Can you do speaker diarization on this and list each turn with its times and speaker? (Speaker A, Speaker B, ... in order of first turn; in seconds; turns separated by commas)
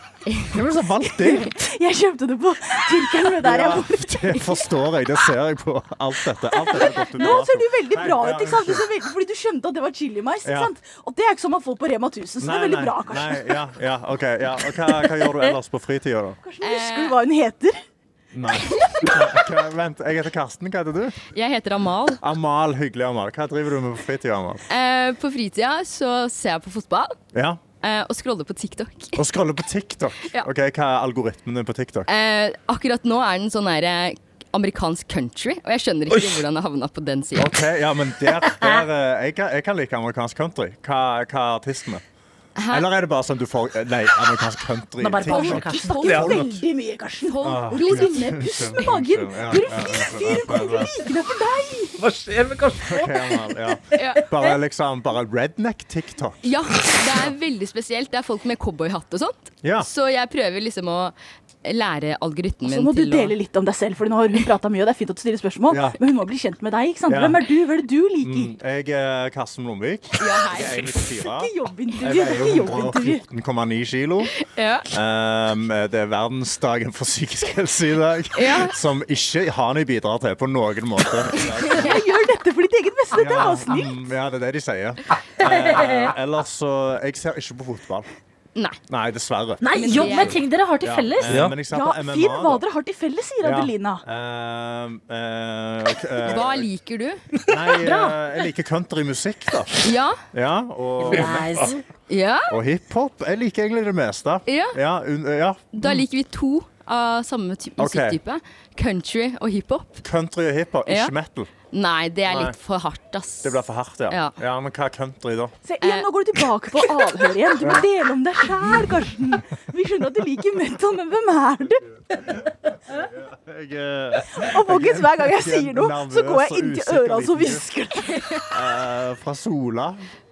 Speaker A: 0.3-0.5, Speaker B: 0.4-1.6, Speaker C: 1.0-4.6, Speaker B: 3.0-8.9, Speaker C: 6.5-13.6, Speaker B: 10.4-10.7, Speaker B: 12.4-16.4, Speaker C: 16.4-17.8, Speaker A: 16.6-17.2, Speaker B: 18.3-21.2, Speaker A: 21.3-22.2, Speaker B: 22.2-24.6, Speaker A: 24.7-27.2, Speaker B: 27.3-27.6, Speaker A: 27.8-29.2, Speaker B: 29.2-32.1, Speaker A: 32.1-37.6, Speaker B: 37.4-42.0, Speaker A: 42.6-42.9, Speaker B: 42.7-46.6, Speaker D: 45.0-46.0, Speaker C: 45.2-52.0, Speaker A: 45.9-46.5, Speaker E: 46.0-46.4, Speaker A: 47.3-48.8, Speaker B: 47.4-51.1, Speaker E: 52.0-53.2, Speaker B: 52.9-57.2, Speaker A: 53.9-54.3, Speaker A: 56.4-63.4, Speaker B: 59.6-59.9, Speaker C: 62.6-68.5, Speaker B: 65.7-66.0, Speaker B: 67.1-67.4, Speaker B: 68.2-71.5, Speaker A: 70.2-71.0, Speaker C: 71.1-73.2, Speaker B: 72.0-74.3, Speaker A: 74.3-74.9, Speaker B: 74.9-82.1, Speaker A: 78.4-78.7, Speaker A: 81.5-82.0, Speaker C: 81.7-84.0, Speaker B: 83.1-88.1, Speaker D: 85.5-86.1, Speaker B: 88.9-89.7, Speaker D: 89.6-91.4, Speaker C: 89.8-90.3, Speaker A: 89.8-90.4, Speaker B: 90.8-92.7, Speaker E: 91.3-91.6, Speaker C: 91.7-94.0, Speaker B: 93.4-96.7, Speaker A: 96.2-97.2, Speaker B: 97.5-101.8, Speaker D: 97.8-98.1, Speaker A: 99.8-100.2, Speaker D: 101.0-101.8, Speaker A: 102.1-102.6, Speaker B: 102.5-105.9, Speaker A: 104.5-104.8, Speaker A: 105.7-110.0, Speaker B: 107.8-108.2, Speaker B: 110.0-111.5, Speaker A: 110.9-111.1, Speaker A: 111.7-113.6, Speaker B: 112.3-112.5, Speaker B: 113.4-115.5, Speaker A: 114.1-114.4, Speaker C: 115.6-121.8, Speaker A: 115.8-116.1, Speaker B: 117.6-117.9, Speaker B: 122.1-127.7, Speaker C: 124.4-128.2, Speaker B: 128.5-130.1